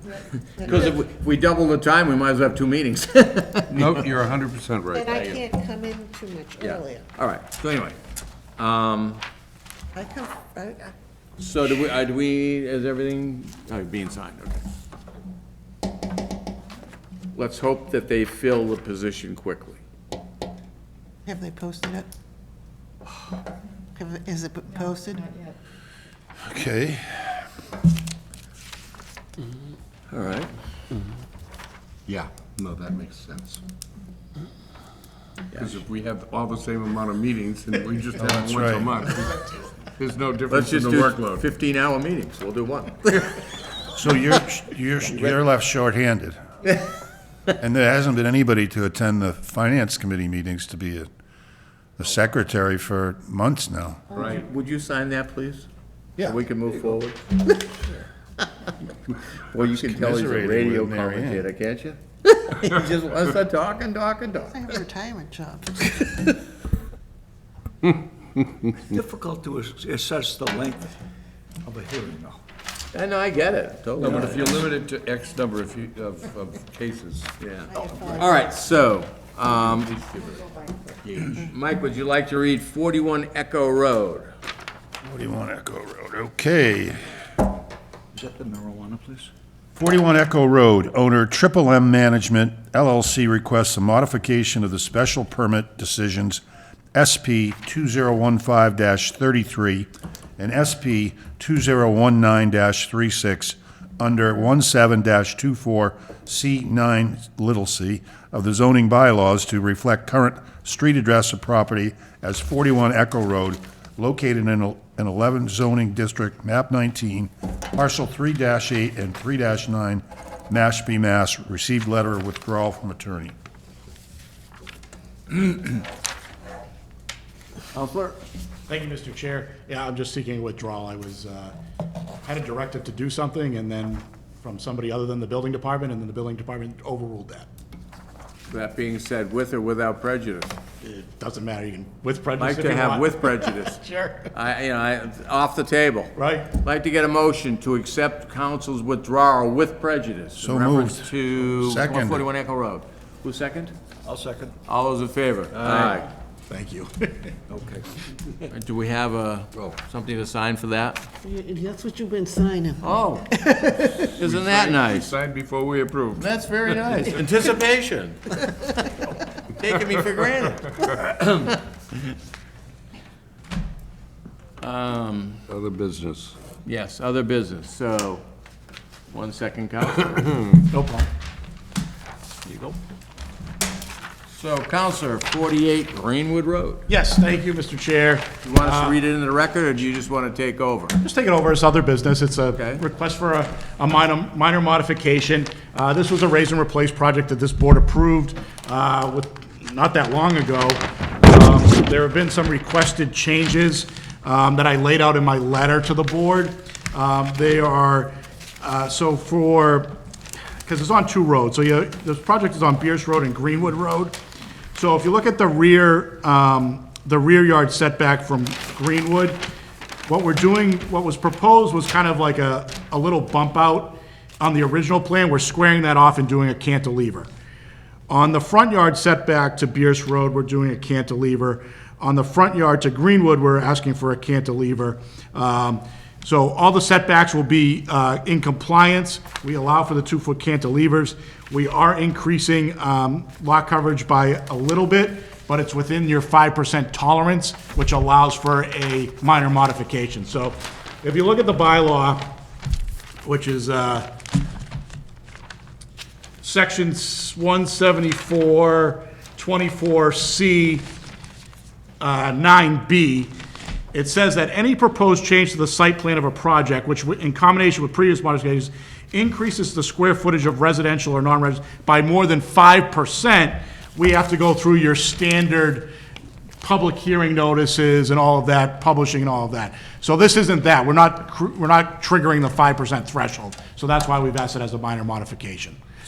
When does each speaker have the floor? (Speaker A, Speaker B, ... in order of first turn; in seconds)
Speaker A: 0.6-4.0, 5.0-5.4, 6.6-8.0, 8.6-9.2, 11.4-14.6, 17.3-19.8, 30.1-30.5, 40.5-43.4, 54.1-55.7, 56.2-57.2, 59.5-64.5, 72.9-74.5, 78.1-80.0, 81.0-84.3, 127.7-128.2, 138.5-140.6, 142.4-143.8, 144.3-153.7, 154.7-156.0, 158.5-161.1, 162.8-163.4, 164.0-165.1, 166.2-168.7, 169.6-171.6, 174.6-175.4, 176.6-178.2, 179.1-180.5, 182.5-182.7, 184.3-186.8, 188.4-191.0, 192.5-192.8
Speaker B: 0.6-1.0, 3.7-5.2, 32.1-33.6, 35.5-41.4, 74.0-78.2, 79.6-80.5, 155.6-156.0, 163.8-167.2, 175.5-176.3
Speaker C: 5.0-7.0, 9.9-10.9, 21.2-22.1, 23.9-25.3, 64.5-66.0, 143.4-144.3, 161.2-163.7
Speaker D: 26.4-27.4, 38.2-39.0, 43.9-46.4, 47.6-51.1, 52.0-54.0, 59.6-61.4, 85.0-87.1, 89.8-96.4, 96.9-123.3, 150.4-152.3
Speaker E: 68.8-70.9, 71.6-72.4, 78.0-78.2, 88.1-89.3, 154.0-154.5, 155.5-156.0, 157.5-158.4
Speaker F: 128.7-131.6, 132.2-137.5, 140.8-143.1, 146.2-146.5, 156.5-157.1, 180.7-181.1, 186.9-189.0, 191.0-209.9, 210.6-214.2, 214.7-219.4, 220.0-227.3, 228.1-252.4, 253.2-254.1, 256.4-260.9, 262.0-263.3, 263.9-275.9, 276.6-285.8